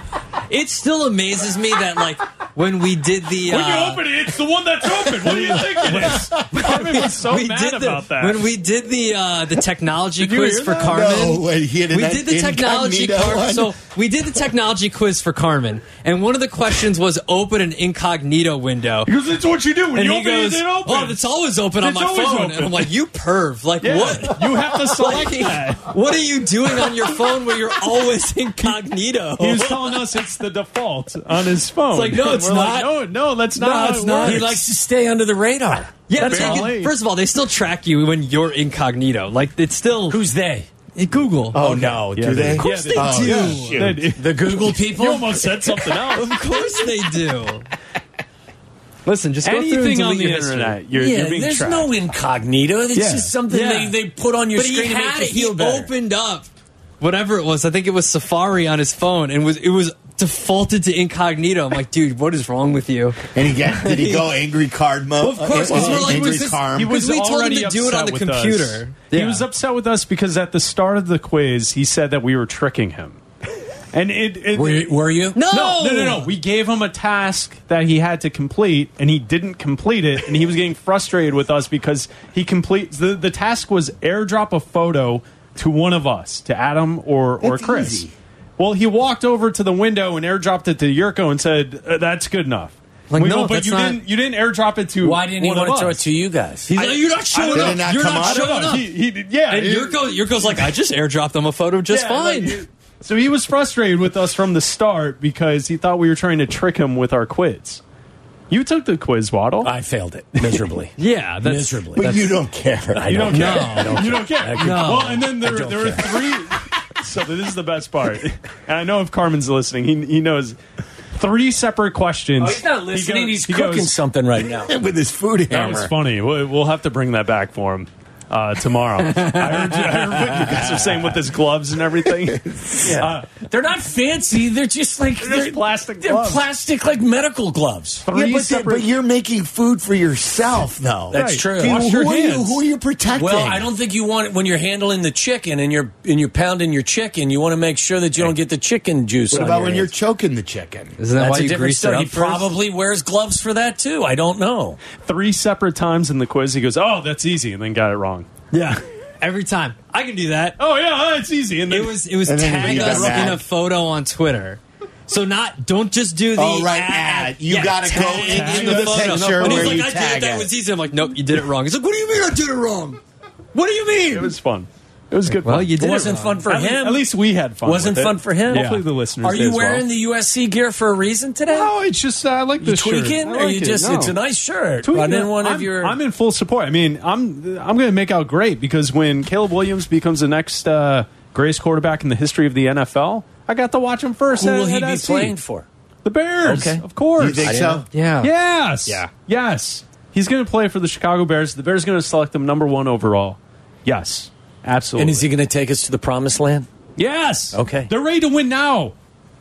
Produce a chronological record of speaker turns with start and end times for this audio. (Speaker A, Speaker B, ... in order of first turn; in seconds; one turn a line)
Speaker A: 0.5-4.1
Speaker B: 3.4-8.5
Speaker C: 5.3-6.7
Speaker A: 5.5-19.1
Speaker B: 10.2-11.1
Speaker C: 10.8-13.8
Speaker B: 19.1-22.9
Speaker A: 19.9-30.1
Speaker B: 23.8-25.9
Speaker B: 29.4-34.6
Speaker A: 31.9-32.9
Speaker A: 33.6-34.5
Speaker D: 34.1-36.8
Speaker A: 36.1-40.2
Speaker B: 36.1-36.9
Speaker D: 40.1-40.7
Speaker A: 41.0-44.0
Speaker C: 41.5-44.0
Speaker B: 41.7-46.7
Speaker D: 44.1-45.7
Speaker A: 46.1-47.7
Speaker A: 49.0-50.8
Speaker B: 49.4-51.9
Speaker D: 50.9-55.9
Speaker B: 52.9-53.3
Speaker A: 53.5-54.0
Speaker A: 54.5-56.5
Speaker A: 57.0-64.3
Speaker C: 63.3-67.0
Speaker A: 65.2-69.5
Speaker B: 65.6-73.2
Speaker B: 73.9-96.0
Speaker D: 74.5-75.4
Speaker A: 75.3-76.3
Speaker C: 87.4-88.1
Speaker A: 93.1-94.0
Speaker D: 95.0-96.7
Speaker B: 96.7-100.8
Speaker A: 96.7-102.6
Speaker C: 97.5-98.8
Speaker B: 101.9-107.8
Speaker B: 108.5-109.7
Speaker D: 109.6-112.1
Speaker B: 110.4-110.7
Speaker A: 111.0-112.3
Speaker C: 112.0-113.7
Speaker D: 113.0-116.3
Speaker B: 113.1-120.6
Speaker A: 113.3-115.2
Speaker B: 121.1-124.0
Speaker D: 122.4-124.7
Speaker C: 124.6-125.9
Speaker B: 125.5-133.3
Speaker D: 132.8-138.1
Speaker B: 135.2-136.5
Speaker B: 138.1-138.9
Speaker C: 138.1-143.7
Speaker D: 141.1-141.9
Speaker B: 141.1-142.6
Speaker D: 143.1-149.9
Speaker C: 149.3-151.0
Speaker A: 151.0-152.5
Speaker D: 151.2-154.8
Speaker B: 154.9-158.3
Speaker A: 158.5-160.6
Speaker B: 160.6-163.4
Speaker A: 161.7-173.0
Speaker C: 162.3-163.4
Speaker C: 166.4-170.5
Speaker B: 167.9-169.9
Speaker A: 173.5-174.3
Speaker B: 174.1-179.9
Speaker A: 175.4-176.4
Speaker D: 175.8-181.7
Speaker A: 178.5-178.8
Speaker B: 181.5-184.2
Speaker D: 182.6-186.0
Speaker B: 184.8-195.4
Speaker D: 194.3-195.7
Speaker B: 196.0-197.6
Speaker D: 196.4-197.9
Speaker C: 197.2-197.9
Speaker A: 197.9-198.3
Speaker B: 198.2-205.3
Speaker A: 198.8-199.1
Speaker D: 205.0-206.7
Speaker B: 207.0-208.9
Speaker D: 207.5-207.9